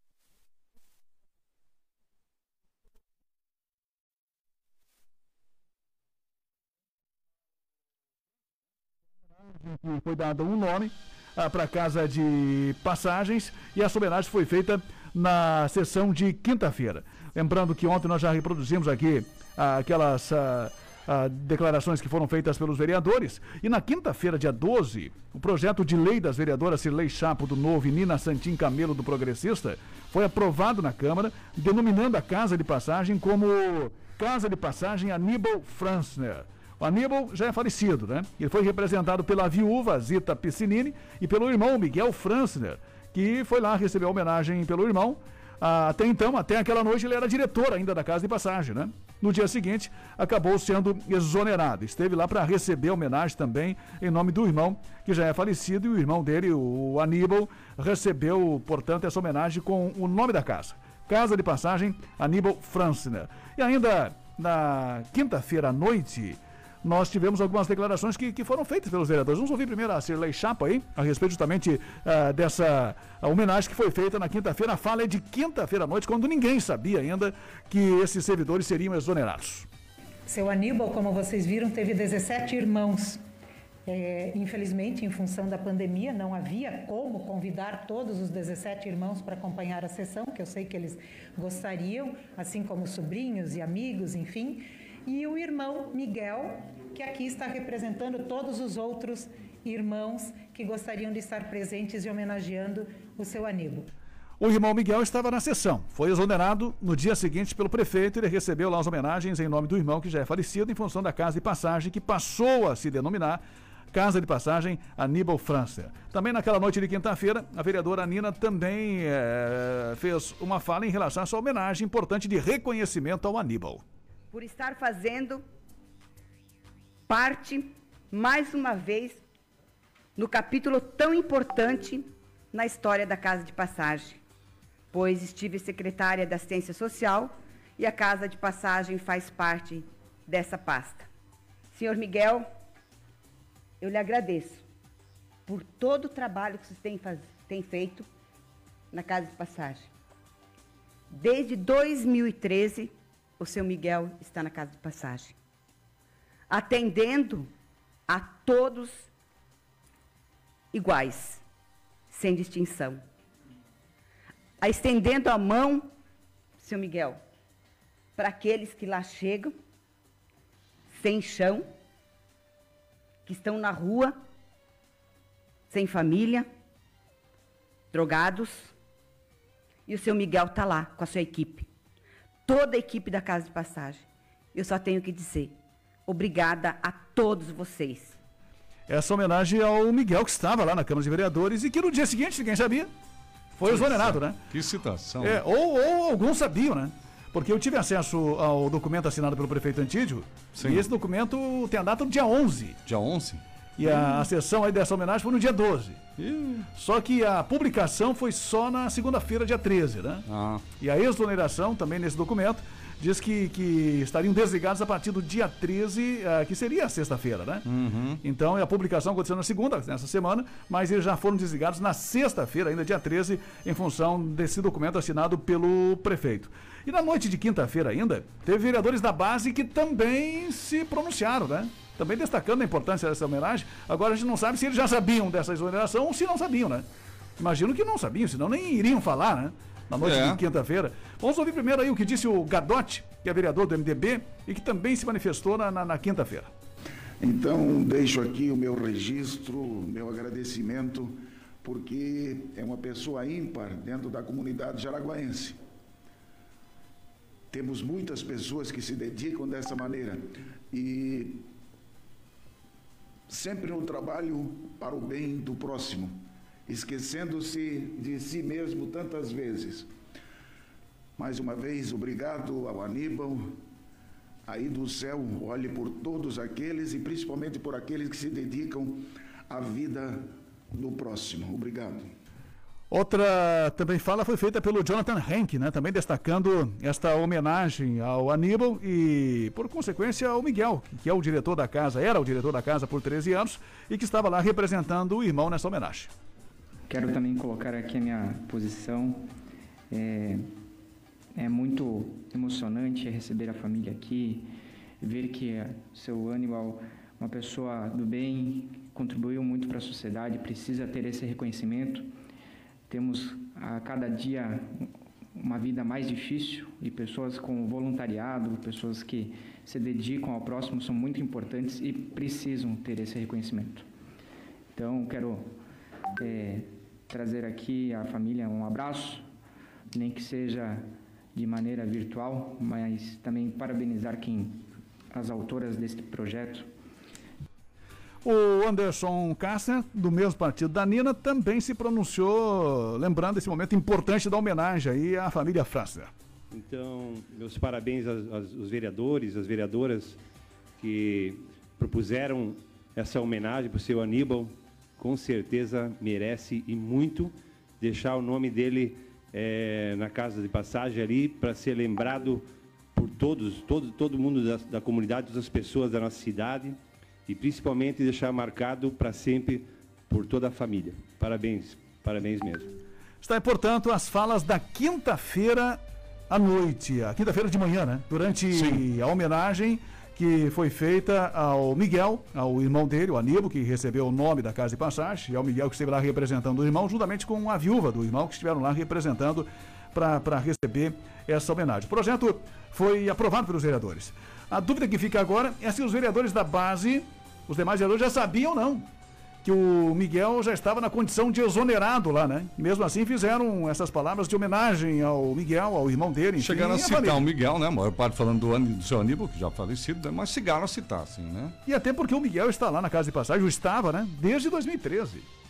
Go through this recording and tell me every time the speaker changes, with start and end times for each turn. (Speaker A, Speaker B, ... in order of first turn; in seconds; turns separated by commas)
Speaker A: 9.3-79.7, Speaker B: 80.3-83.2, Speaker B: 83.9-103.9, Speaker A: 104.4-123.8, Speaker C: 124.3-125.4, Speaker C: 127.1-129.2, Speaker C: 130.2-134.2, Speaker C: 134.9-141.1, Speaker C: 141.7-142.5, Speaker C: 143.8-144.7, Speaker C: 145.5-148.1, Speaker C: 148.9-149.9, Speaker C: 151.1-155.3, Speaker C: 156.5-157.5, Speaker C: 158.1-159.1, Speaker C: 160.7-161.4, Speaker C: 162.1-163.0, Speaker C: 164.6-165.9, Speaker C: 166.6-167.2, Speaker C: 168.2-169.6, Speaker C: 170.9-171.7, Speaker C: 173.3-174.2, Speaker C: 175.7-176.5, Speaker C: 177.9-178.7, Speaker C: 179.9-181.7, Speaker C: 182.5-188.2, Speaker A: 188.9-192.9, Speaker A: 193.6-194.4, Speaker D: 193.7-195.4, Speaker A: 195.2-202.8, Speaker D: 200.5-200.9, Speaker D: 202.9-204.1, Speaker A: 203.8-206.0, Speaker D: 206.2-206.7, Speaker A: 206.8-210.2, Speaker D: 210.3-210.7, Speaker A: 210.8-217.7, Speaker D: 217.7-218.2, Speaker A: 218.2-236.9, Speaker A: 237.4-246.5, Speaker D: 240.0-240.4, Speaker E: 247.2-255.6, Speaker E: 257.5-261.5, Speaker E: 263.3-269.9, Speaker E: 271.2-273.6, Speaker E: 274.5-282.1, Speaker A: 282.9-296.1, Speaker F: 296.9-299.2, Speaker F: 299.9-300.5, Speaker F: 301.4-312.1, Speaker F: 312.9-323.9, Speaker F: 324.8-325.6, Speaker F: 326.2-329.3, Speaker F: 329.9-336.7, Speaker A: 338.2-346.1, Speaker G: 346.5-350.2, Speaker G: 350.8-372.8, Speaker A: 373.2-398.9, Speaker D: 378.5-378.8, Speaker A: 399.4-407.2, Speaker D: 406.4-411.6, Speaker A: 411.6-415.3